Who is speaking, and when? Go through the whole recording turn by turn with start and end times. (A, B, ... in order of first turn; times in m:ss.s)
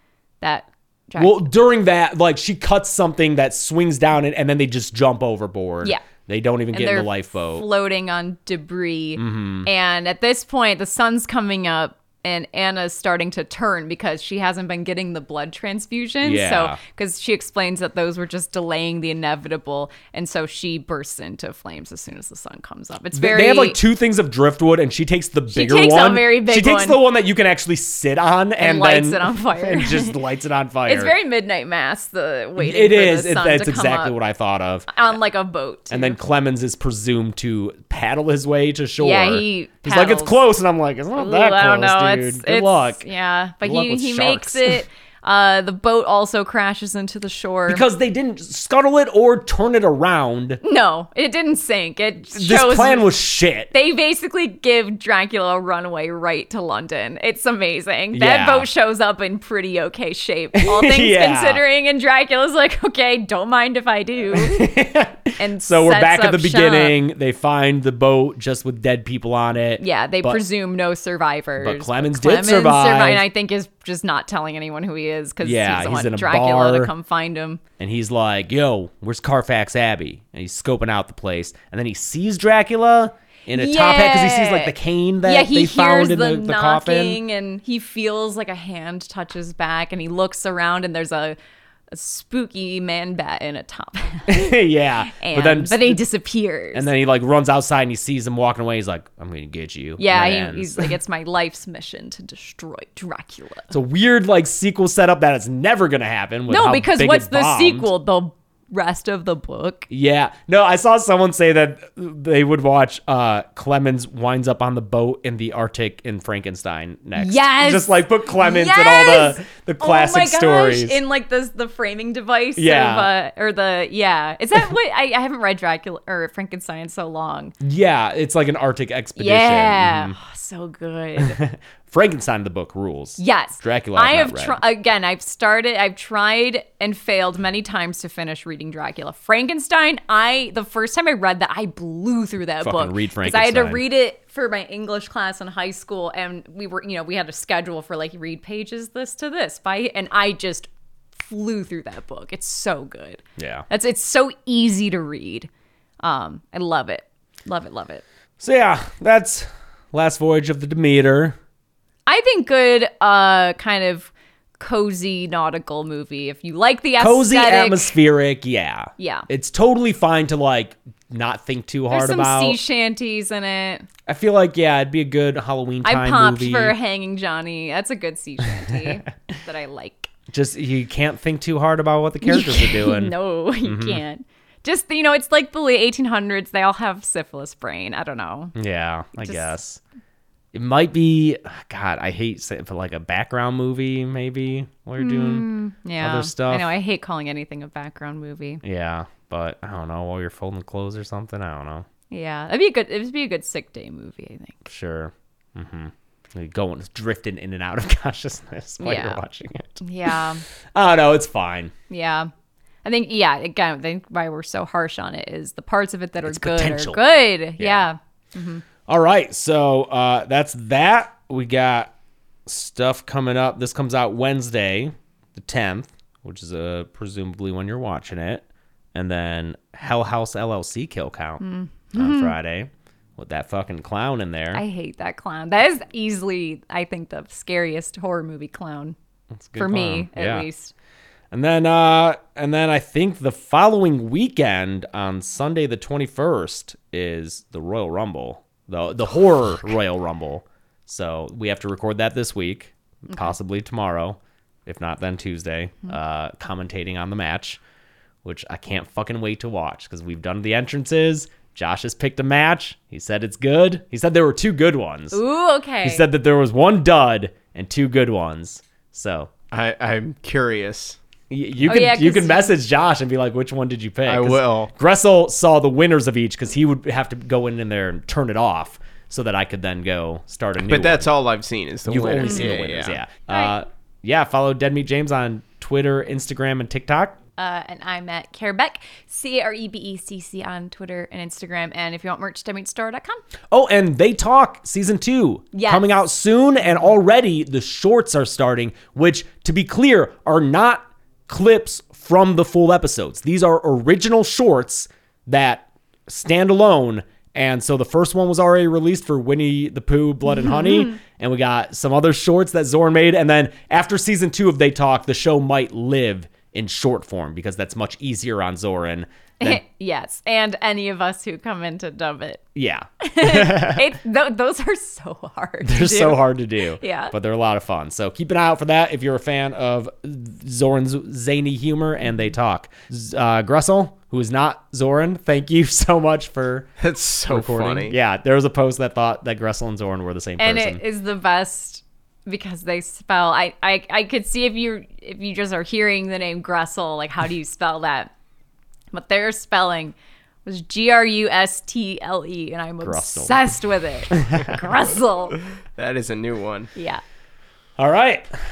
0:00.4-0:01.5 A
0:01.2-0:07.6 B
0:06.7-0:23.8 A
0:09.2-0:09.7 B
0:16.2-0:16.8 B
0:23.1-0:31.1 B
0:25.5-0:27.0 A
0:28.6-0:30.2 A
0:30.8-0:34.2 A
0:32.6-0:34.9 B
0:34.9-0:36.2 A
0:35.9-0:43.0 B
0:39.0-0:40.4 A
0:41.1-0:47.8 A
0:43.6-0:44.8 B
0:47.7-0:50.6 B
0:50.6-0:53.1 A
0:52.3-0:53.7 B
0:53.7-1:04.7 A
0:58.1-0:58.7 B
1:00.5-1:01.6 B
1:04.3-1:10.4 B
1:05.4-1:07.0 A
1:09.8-1:17.6 A
1:11.6-1:13.2 B
1:15.4-1:16.9 B
1:17.8-1:27.2 B
1:23.5-1:31.4 A
1:31.9-1:36.9 A
1:34.3-1:36.0 B
1:36.7-1:40.9 B
1:40.0-1:43.7 A
1:43.7-1:47.9 B
1:46.5-1:49.9 A
1:49.9-2:01.0 B
1:57.2-2:07.5 A
2:02.6-2:03.1 B
2:07.6-2:10.2 B
2:09.2-2:11.4 A
2:11.2-2:14.6 B
2:13.2-2:35.5 A
2:22.6-2:23.8 B
2:33.4-2:33.6 B
2:36.0-2:38.0 A
2:38.4-2:41.4 B
2:42.1-2:47.9 A
2:47.0-2:52.6 B
2:49.0-2:49.3 A
2:51.9-2:53.9 A
2:54.0-2:56.8 B
2:55.8-3:00.1 A
2:58.5-2:58.9 B
3:00.3-3:04.0 B
3:02.2-3:08.5 A
3:08.5-3:09.8 B
3:09.2-3:09.5 A
3:10.5-3:16.7 B
3:15.0-3:18.6 A
3:18.6-3:21.8 B
3:22.1-3:24.6 A
3:24.6-3:30.2 B
3:28.8-3:29.2 A
3:29.8-3:30.4 A
3:30.7-3:31.7 B
3:31.9-3:32.3 A
3:32.8-3:38.6 A
3:36.2-3:37.0 B
3:37.6-3:37.8 B
3:38.8-3:41.9 B
3:42.4-3:51.4 B
3:51.4-3:52.4 A
3:51.9-3:54.6 B
3:54.5-3:59.0 A
3:59.3-4:00.5 B
3:59.5-4:00.7 A
4:01.3-4:17.6 B
4:18.2-4:25.2 B
4:25.1-4:26.0 A
4:25.8-4:29.3 B
4:29.5-4:31.0 C
4:31.3-4:41.1 B
4:31.6-4:32.5 A
4:34.0-4:34.7 C
4:40.6-4:43.0 C
4:41.8-4:47.2 B
4:47.4-4:53.2 A
4:53.5-5:19.6 B
4:55.5-4:56.0 A
5:10.3-5:11.0 A
5:19.4-5:22.4 A
5:22.5-5:23.9 B
5:23.0-5:27.1 A
5:25.6-5:36.7 B
5:36.8-5:37.9 C
5:37.3-5:40.8 B
5:40.4-5:48.1 A
5:48.9-5:55.4 A
5:52.8-5:53.4 B
5:54.1-5:54.6 B
5:55.7-5:56.7 C
5:56.7-5:57.0 A
5:57.8-5:58.3 B